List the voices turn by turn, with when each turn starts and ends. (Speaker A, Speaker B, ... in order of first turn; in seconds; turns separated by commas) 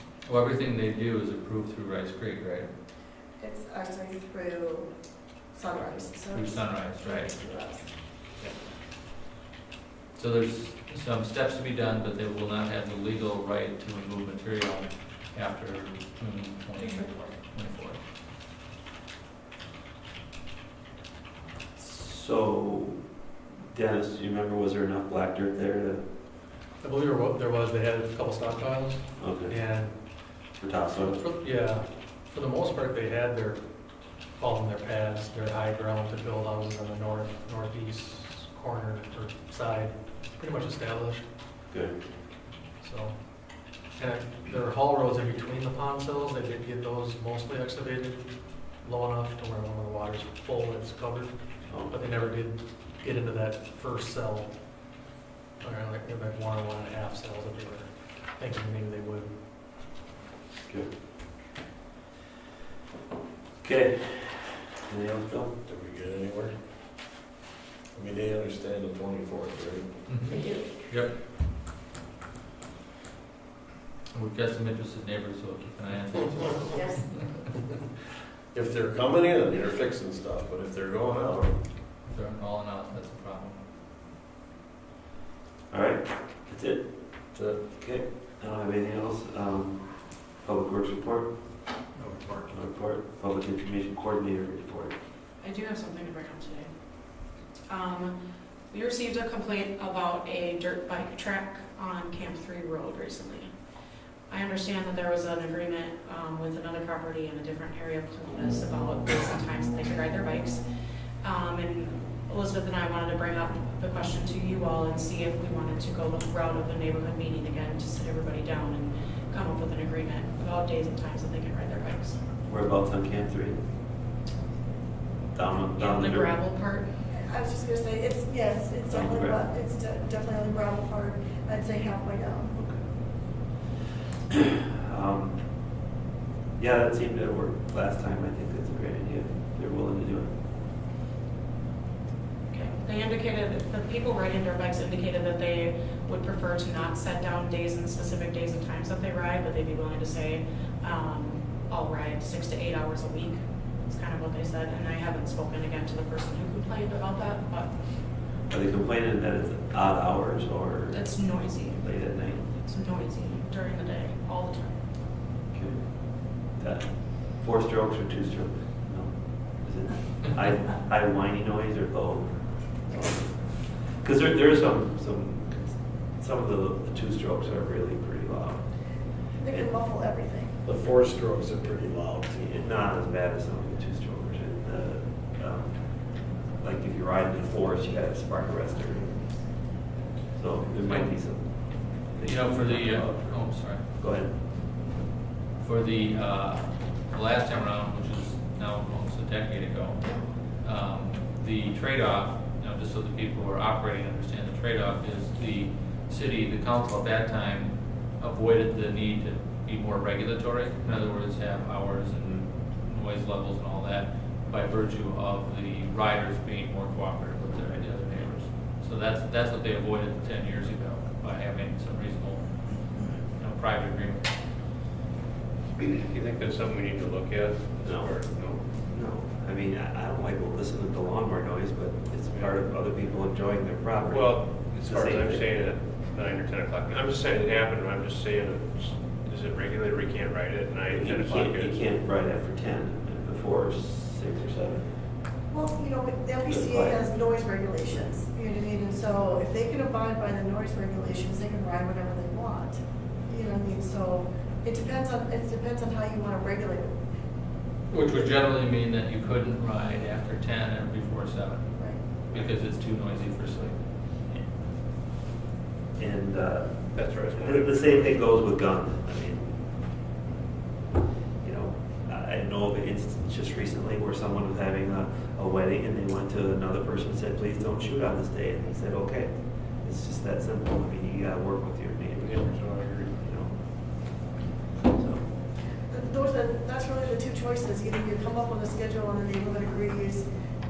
Speaker A: 0.2-2.7, Speaker B: 3.4-4.9, Speaker B: 5.5-7.9, Speaker A: 6.3-7.3, Speaker A: 10.1-18.0, Speaker C: 16.9-17.4, Speaker D: 21.8-23.0, Speaker D: 23.7-26.0, Speaker E: 26.8-29.9, Speaker D: 29.2-29.6, Speaker D: 30.6-31.2, Speaker E: 31.1-33.6, Speaker E: 34.4-41.2, Speaker D: 41.7-41.9, Speaker E: 42.8-43.1, Speaker E: 44.0-51.3, Speaker D: 51.7-51.9, Speaker E: 51.8-54.5, Speaker E: 55.6-59.3, Speaker D: 63.6-65.5, Speaker F: 65.6-66.6, Speaker F: 67.9-70.0, Speaker A: 70.1-70.3, Speaker B: 70.3-70.7, Speaker A: 70.9-71.1, Speaker A: 74.1-76.9, Speaker B: 76.7-77.0, Speaker F: 78.5-81.5, Speaker A: 82.1-83.6, Speaker D: 85.7-91.3, Speaker F: 87.3-87.6, Speaker D: 92.5-94.9, Speaker C: 95.4-98.2, Speaker C: 98.7-103.5, Speaker C: 104.3-110.6, Speaker C: 111.2-122.2, Speaker D: 122.4-123.6, Speaker D: 125.3-126.3, Speaker C: 125.7-126.9, Speaker B: 127.1-132.5, Speaker D: 128.9-129.4, Speaker D: 132.5-132.8, Speaker D: 134.3-135.5, Speaker D: 136.6-140.3, Speaker C: 142.5-158.0, Speaker D: 158.5-161.1, Speaker C: 160.9-164.8, Speaker D: 161.8-162.5, Speaker D: 165.5-178.6, Speaker B: 179.4-180.5, Speaker F: 180.6-182.5, Speaker D: 182.4-189.2, Speaker D: 190.3-194.4, Speaker A: 190.8-191.1, Speaker A: 191.7-193.8, Speaker A: 195.6-224.3, Speaker G: 225.8-228.7, Speaker D: 227.8-228.1, Speaker D: 228.7-235.4, Speaker G: 232.3-232.6, Speaker G: 234.0-241.8, Speaker D: 240.9-244.9, Speaker B: 245.5-256.9, Speaker D: 246.5-247.0, Speaker A: 257.9-263.8, Speaker B: 261.7-262.0, Speaker D: 265.9-269.6, Speaker G: 266.9-268.2, Speaker D: 271.4-284.2, Speaker G: 282.2-283.2, Speaker D: 284.8-285.3, Speaker B: 285.9-290.3